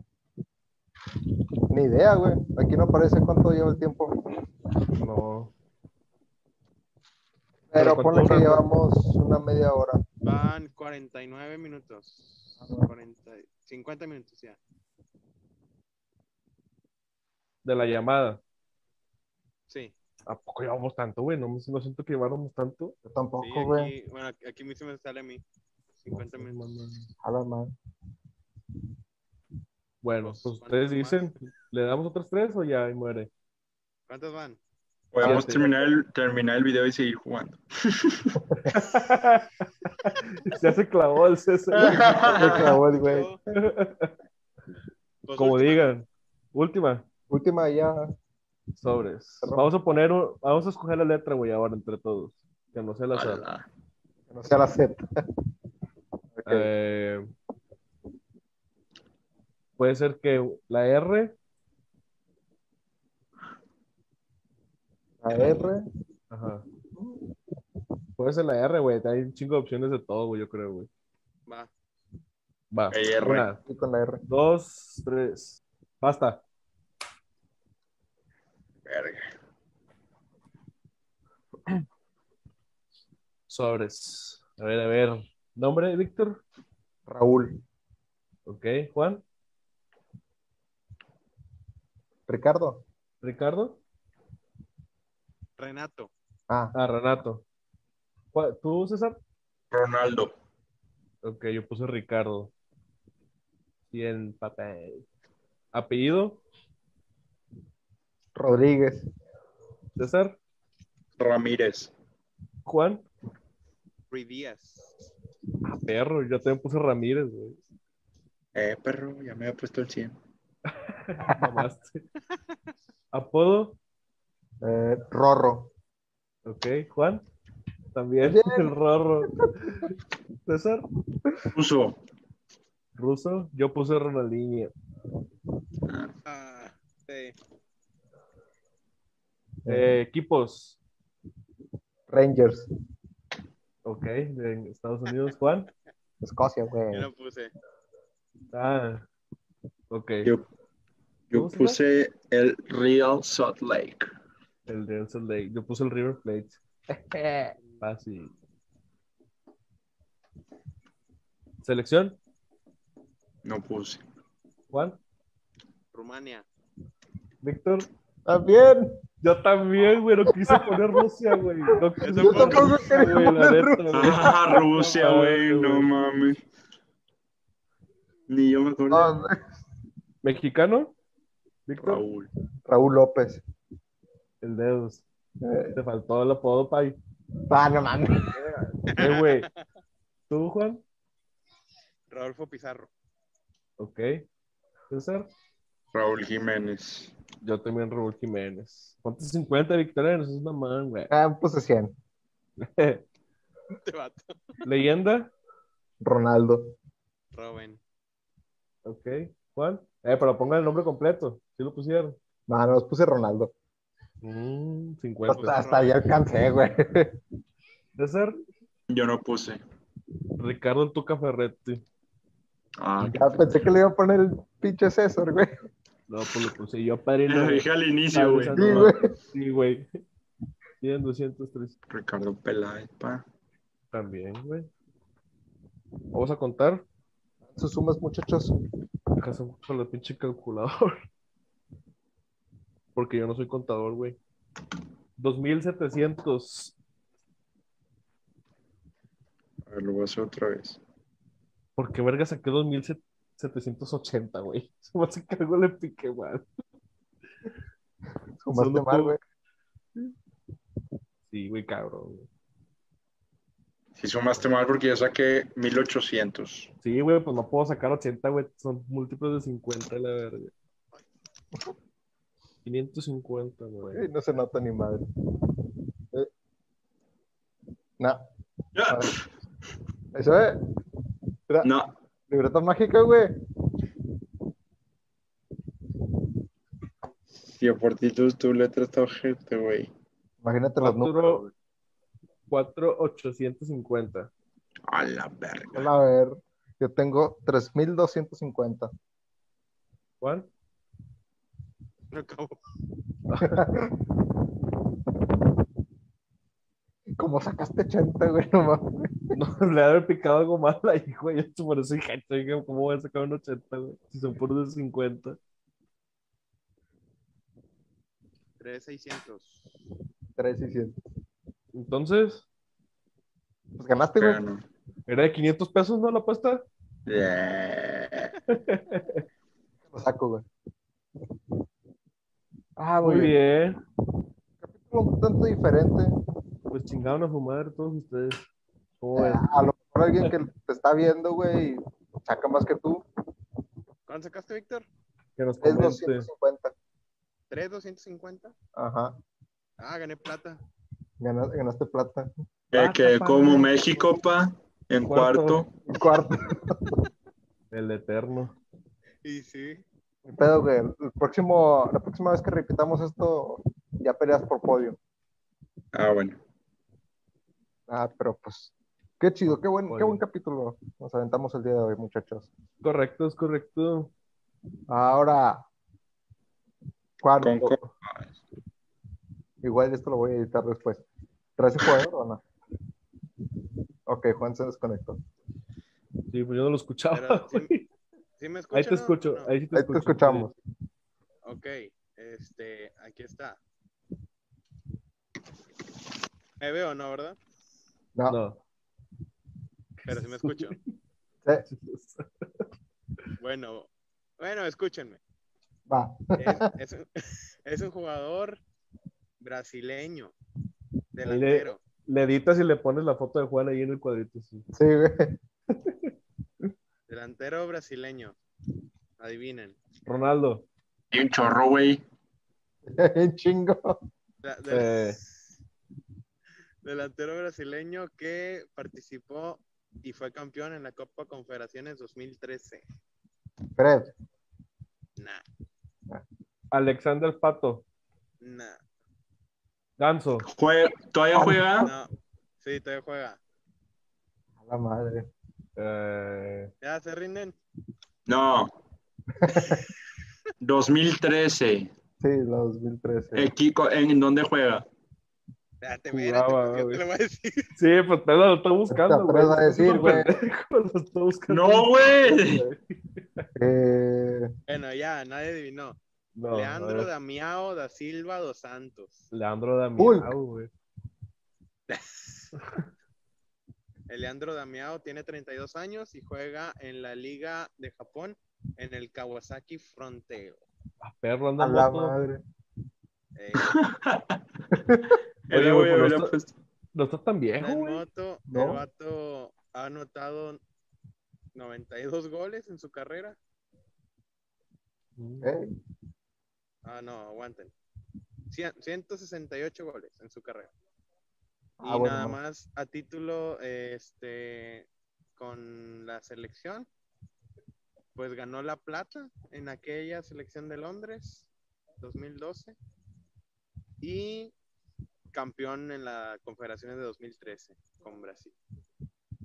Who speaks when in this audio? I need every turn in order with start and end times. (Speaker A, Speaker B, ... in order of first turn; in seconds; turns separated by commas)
Speaker A: 1.7-4.4, Speaker B: 5.0-5.5, Speaker A: 7.7-10.0, Speaker B: 7.8-8.6, Speaker C: 10.2-14.6, Speaker A: 12.6-12.9, Speaker B: 17.6-18.4, Speaker B: 20.3-22.9, Speaker A: 23.1-23.9, Speaker C: 23.4-25.4, Speaker C: 26.0-26.7, Speaker B: 26.1-27.1, Speaker A: 27.2-27.8, Speaker B: 30.0-33.3, Speaker C: 30.2-31.3, Speaker C: 34.1-34.6, Speaker D: 35.1-38.4, Speaker B: 35.2-35.7, Speaker B: 38.7-42.2, Speaker D: 41.8-42.6, Speaker C: 42.0-43.4, Speaker A: 42.0-43.3, Speaker B: 43.5-44.1, Speaker C: 45.3-45.9, Speaker B: 45.4-47.1, Speaker A: 47.3-48.1, Speaker B: 48.8-53.4, Speaker A: 49.4-49.7, Speaker D: 53.1-53.7, Speaker A: 54.3-55.0, Speaker A: 56.4-56.7, Speaker B: 56.5-57.3, Speaker B: 59.8-61.4, Speaker A: 65.2-65.8, Speaker B: 66.3-66.7, Speaker A: 67.0-67.2, Speaker B: 68.2-70.9, Speaker B: 72.7-73.6, Speaker D: 72.9-73.5, Speaker A: 73.7-74.2, Speaker B: 74.3-76.4, Speaker D: 78.9-79.3, Speaker B: 83.5-86.4, Speaker A: 87.1-87.6, Speaker B: 88.5-89.2, Speaker A: 92.3-92.8, Speaker B: 93.2-93.8, Speaker C: 95.6-96.1, Speaker A: 96.5-96.7, Speaker B: 96.7-97.4, Speaker B: 98.3-99.2, Speaker D: 99.7-100.3, Speaker B: 101.2-102.5, Speaker B: 103.9-105.0, Speaker B: 105.7-106.4, Speaker A: 108.3-109.1, Speaker B: 110.0-110.4, Speaker D: 111.2-111.9, Speaker B: 112.7-113.0, Speaker C: 114.1-114.9, Speaker B: 115.7-117.6, Speaker D: 118.5-120.2, Speaker B: 120.9-122.0, Speaker A: 121.3-121.5, Speaker B: 123.1-123.8, Speaker A: 124.6-125.7, Speaker B: 126.5-127.2, Speaker B: 127.9-130.9, Speaker A: 128.2-128.7, Speaker D: 131.5-132.0, Speaker B: 133.0-134.7, Speaker D: 135.9-136.1, Speaker C: 136.3-137.4, Speaker A: 139.7-139.9, Speaker B: 139.7-140.8, Speaker A: 142.1-142.7, Speaker B: 143.8-145.7, Speaker A: 146.2-147.1, Speaker C: 146.9-147.5, Speaker B: 148.5-149.1, Speaker B: 149.9-150.3, Speaker D: 151.3-154.1, Speaker B: 151.3-151.8, Speaker B: 154.7-158.3, Speaker B: 161.6-162.2, Speaker D: 163.4-164.0, Speaker B: 164.7-165.0, Speaker C: 165.9-166.4, Speaker B: 167.4-167.9, Speaker A: 168.3-169.0, Speaker B: 169.2-174.2, Speaker A: 170.3-170.8, Speaker C: 172.0-172.9, Speaker A: 172.2-174.9, Speaker D: 173.9-176.4, Speaker B: 174.8-175.9, Speaker D: 178.3-179.2, Speaker A: 178.9-179.5, Speaker B: 180.2-180.9, Speaker B: 181.7-182.0, Speaker D: 181.8-182.3, Speaker A: 182.7-183.4, Speaker B: 184.4-185.1, Speaker A: 185.4-185.8, Speaker B: 185.7-187.0, Speaker A: 187.5-188.6, Speaker C: 188.9-189.5, Speaker B: 188.9-189.5, Speaker B: 190.3-190.8, Speaker C: 192.1-192.9, Speaker B: 193.8-194.2, Speaker B: 194.9-195.3, Speaker D: 195.9-197.1, Speaker B: 197.4-201.1, Speaker A: 201.1-201.9, Speaker B: 202.6-203.0, Speaker C: 203.8-204.6, Speaker B: 204.7-205.3, Speaker A: 206.0-206.8, Speaker C: 207.3-207.8, Speaker B: 208.8-212.2, Speaker A: 212.5-213.5, Speaker B: 214.2-215.7, Speaker A: 215.3-217.2, Speaker C: 215.4-215.9, Speaker B: 218.0-218.3, Speaker D: 218.9-219.6, Speaker B: 220.4-221.8, Speaker D: 222.8-223.7, Speaker A: 223.0-225.5, Speaker B: 226.1-229.9, Speaker D: 227.3-228.9, Speaker A: 228.5-229.2, Speaker B: 230.8-231.8, Speaker D: 231.9-233.2, Speaker B: 233.9-234.7, Speaker B: 236.1-236.8, Speaker A: 237.5-238.7, Speaker B: 239.2-241.0, Speaker B: 242.9-244.2, Speaker B: 245.2-246.7, Speaker D: 249.7-250.8, Speaker B: 251.8-256.4, Speaker A: 258.4-259.2, Speaker B: 258.5-259.2, Speaker B: 261.3-262.3, Speaker D: 264.0-266.7, Speaker B: 266.8-270.5, Speaker B: 272.6-274.0, Speaker A: 273.9-275.1, Speaker A: 278.0-278.2, Speaker D: 278.8-279.2, Speaker A: 278.9-279.2, Speaker A: 280.1-280.7, Speaker D: 281.6-281.9, Speaker A: 282.3-283.4, Speaker D: 287.4-289.9, Speaker A: 290.4-291.5, Speaker B: 290.8-291.5, Speaker B: 292.5-294.3, Speaker D: 294.9-295.9, Speaker A: 295.7-298.9, Speaker B: 300.2-300.5, Speaker C: 302.1-302.6, Speaker B: 303.3-303.6, Speaker A: 303.4-304.1, Speaker A: 307.2-309.3, Speaker B: 309.3-315.4, Speaker C: 318.6-319.8, Speaker A: 320.4-321.0, Speaker B: 321.7-322.4, Speaker A: 323.8-324.4, Speaker D: 324.2-324.6, Speaker B: 325.1-326.6, Speaker D: 327.1-328.3, Speaker B: 328.5-329.2, Speaker A: 329.9-330.5, Speaker A: 332.8-333.4, Speaker B: 333.0-333.8, Speaker A: 334.6-336.2, Speaker B: 336.7-338.5, Speaker B: 339.0-339.5, Speaker A: 339.1-343.0, Speaker C: 344.1-344.9, Speaker B: 345.4-346.3, Speaker A: 345.6-346.7, Speaker C: 347.5-348.5, Speaker A: 348.8-349.2, Speaker C: 349.8-350.6, Speaker A: 351.2-352.3, Speaker D: 352.7-355.7, Speaker B: 352.7-353.8, Speaker B: 355.0-355.6, Speaker A: 355.9-357.0, Speaker B: 357.7-358.6, Speaker C: 359.2-359.8, Speaker A: 360.3-365.0, Speaker D: 365.9-366.4, Speaker A: 367.9-372.5, Speaker B: 369.9-370.2, Speaker B: 372.8-374.1, Speaker A: 374.9-375.6, Speaker A: 377.2-377.8, Speaker D: 377.4-378.3, Speaker A: 379.6-381.0, Speaker A: 381.6-382.4, Speaker A: 384.1-385.2, Speaker B: 386.3-387.8, Speaker C: 387.1-387.8, Speaker C: 388.4-389.5, Speaker B: 388.7-390.5, Speaker A: 389.7-390.5, Speaker C: 391.4-393.6, Speaker C: 396.6-397.4, Speaker B: 398.3-398.6, Speaker B: 400.0-400.8, Speaker C: 400.1-400.8, Speaker B: 401.7-402.6, Speaker C: 403.4-405.2, Speaker A: 405.9-406.7, Speaker C: 406.4-408.6, Speaker C: 409.4-410.3, Speaker C: 411.1-411.8, Speaker B: 411.3-414.7, Speaker A: 414.7-415.4, Speaker C: 417.1-418.4, Speaker C: 419.2-419.8, Speaker B: 420.1-420.7, Speaker D: 421.1-422.0, Speaker A: 422.9-424.0, Speaker C: 424.4-425.5, Speaker B: 424.7-425.2, Speaker C: 426.8-432.8, Speaker A: 433.8-434.1, Speaker C: 435.2-435.4, Speaker B: 436.7-437.8, Speaker C: 438.4-438.8, Speaker B: 440.0-440.5, Speaker D: 440.5-441.9, Speaker A: 441.4-441.9, Speaker C: 441.8-443.4, Speaker A: 444.6-445.3, Speaker B: 445.8-446.7, Speaker C: 446.8-447.6, Speaker D: 448.3-448.7, Speaker A: 449.4-449.8, Speaker D: 450.6-451.9, Speaker A: 452.2-453.5, Speaker D: 453.4-454.9, Speaker C: 455.8-457.7, Speaker B: 456.1-457.0, Speaker B: 457.8-463.5, Speaker A: 458.9-460.4, Speaker D: 461.5-462.6, Speaker A: 463.6-464.5, Speaker C: 464.7-466.0, Speaker B: 466.4-467.1, Speaker C: 466.5-469.3, Speaker B: 469.3-470.7, Speaker A: 470.0-470.3, Speaker C: 471.9-472.5, Speaker C: 474.1-480.6, Speaker B: 481.0-482.2, Speaker A: 481.6-482.4, Speaker C: 483.4-483.8, Speaker D: 483.6-484.4, Speaker A: 484.7-485.1, Speaker D: 485.5-486.5, Speaker B: 485.5-486.3, Speaker B: 486.9-488.0, Speaker C: 487.6-490.6, Speaker A: 488.5-488.9, Speaker C: 491.6-493.4, Speaker B: 495.2-495.5, Speaker A: 495.4-495.7, Speaker C: 496.9-497.7, Speaker C: 498.5-500.7, Speaker A: 501.8-502.4, Speaker C: 501.8-506.9, Speaker C: 508.1-511.5, Speaker C: 512.0-512.8, Speaker C: 514.0-514.5, Speaker C: 515.3-518.5